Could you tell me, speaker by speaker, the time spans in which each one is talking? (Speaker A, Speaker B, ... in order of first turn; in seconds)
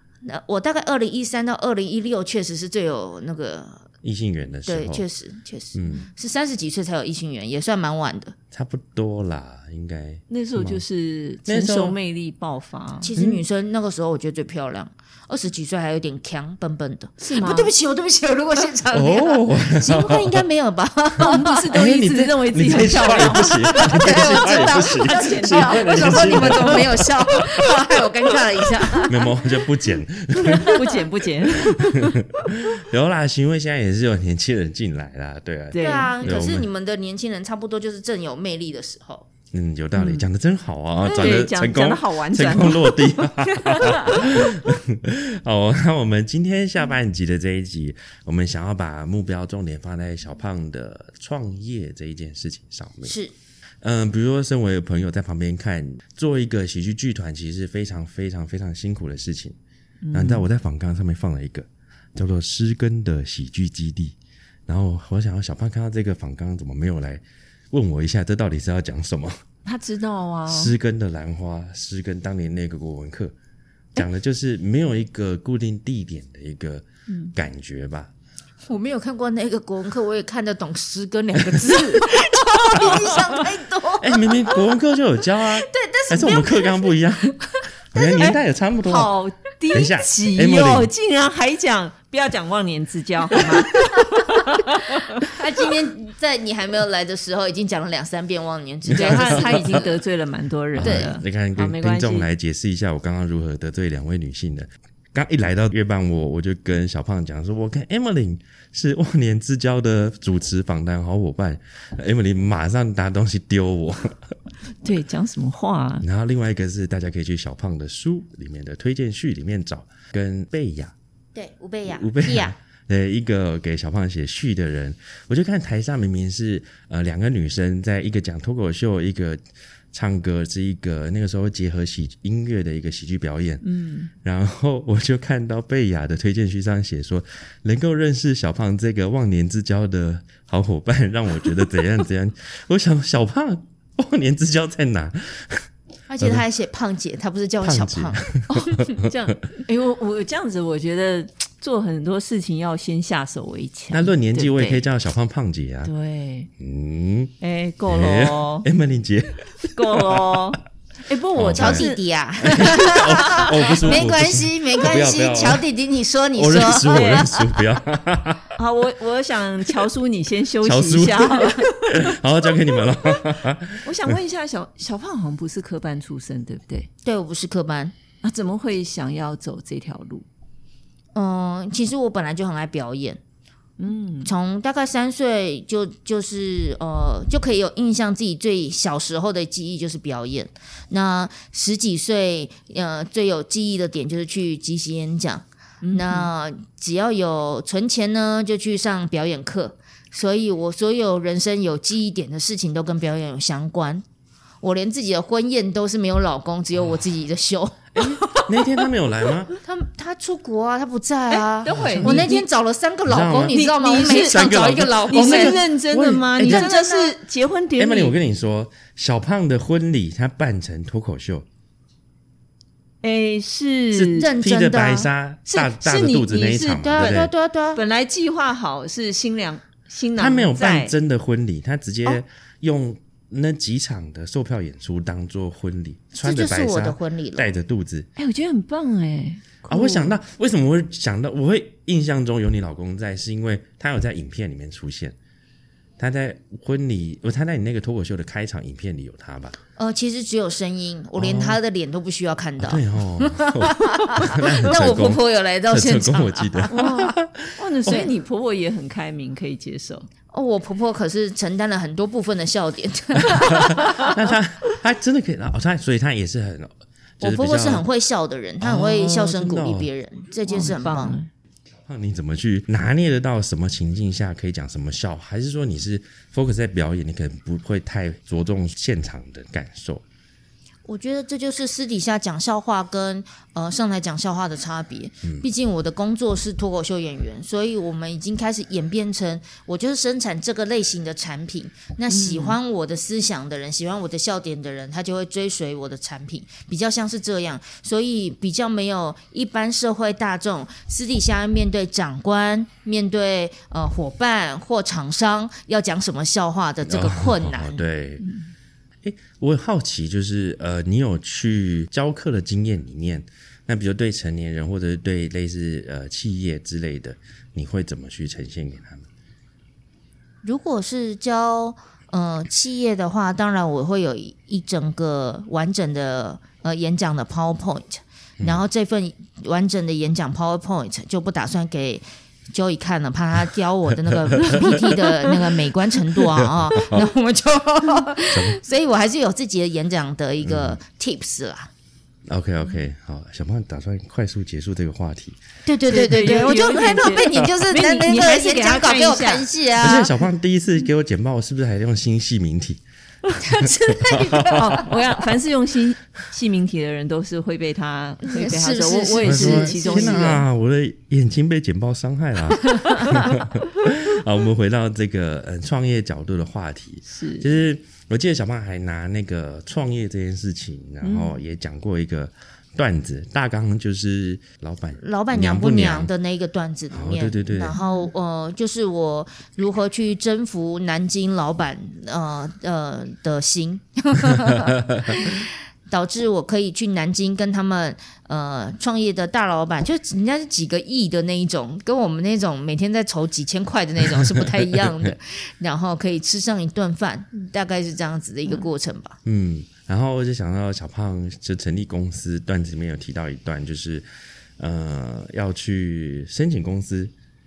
Speaker A: 0.2-3.9, 4.7-8.4, 13.0-21.6, 23.6-29.1, 30.4-30.8, 35.8-39.3, 53.0-53.3, 78.7-84.6, 85.6-88.3, 95.2-100.0, 100.8-101.1, 121.3-122.5, 146.1-148.2, 161.5-167.6, 177.1-177.9, 181.2-183.2, 184.2-204.1, 204.6-208.5, 209.6-215.6, 216.4-217.1, 224.2-225.1, 226.8-227.8, 236.2-237.5, 249.8-257.1, 260.3-264.2, 267.2-271.2, 280.9-307.8, 320.4-341.7, 345.7-350.1, 353.4-355.0, 358.3-360.4, 375.0-399.2
Speaker B: 4.0-5.0, 5.8-6.0, 8.5-10.8, 11.5-12.0, 13.2-13.4, 18.9-20.3, 21.7-27.3, 29.0-30.8, 31.6-36.7, 39.5-53.2, 53.8-59.6, 60.1-64.2, 64.7-69.4, 70.5-73.3, 73.9-78.1, 84.0-87.4, 87.9-89.1, 89.7-90.9, 98.9-99.7, 100.7-114.3, 116.0-121.0, 121.9-129.4, 129.9-133.7, 134.2-145.7, 147.6-149.1, 153.9-155.9, 156.6-157.3, 157.9-160.4, 161.3-161.9, 162.4-165.6, 166.4-168.6, 170.6-174.2, 208.0-209.5, 211.8-212.3, 213.1-216.7, 217.8-221.5, 223.9-227.3, 230.2-238.1, 239.7-245.2, 246.0-249.6, 251.2-251.6, 252.6-258.1, 263.4-267.9, 268.6-269.9, 271.9-280.0, 306.9-308.3, 309.0-319.1, 334.1-334.9, 336.4-337.1, 338.3-338.6, 340.4-340.8, 342.3-345.4, 349.8-352.8, 353.6-354.6, 359.2-376.1, 376.9-377.8, 384.9-385.2, 394.1-395.1, 399.2-404.1, 404.6-407.1
Speaker C: 10.3-13.1, 17.2-17.7, 21.3-26.9, 30.4-32.5, 35.7-36.3, 40.0-40.3, 41.0-44.4, 60.0-60.5, 69.7-70.8, 77.1-77.3, 82.8-83.1, 88.8-95.3, 99.0-102.3, 114.8-116.0, 133.6-134.1, 148.5-154.9, 155.9-156.5, 157.4-158.7, 159.7-163.9, 168.6-172.2, 173.8-176.9, 178.2-180.3, 183.8-184.3, 195.8-196.3, 211.3-212.5, 213.5-214.6, 215.1-218.2, 223.0-224.3, 225.5-230.9, 238.2-240.2, 256.7-260.1, 270.5-271.3, 292.1-292.6, 308.2-308.5, 345.9-349.5, 354.5-360.4, 367.1-367.5, 371.0-371.4, 377.8-378.1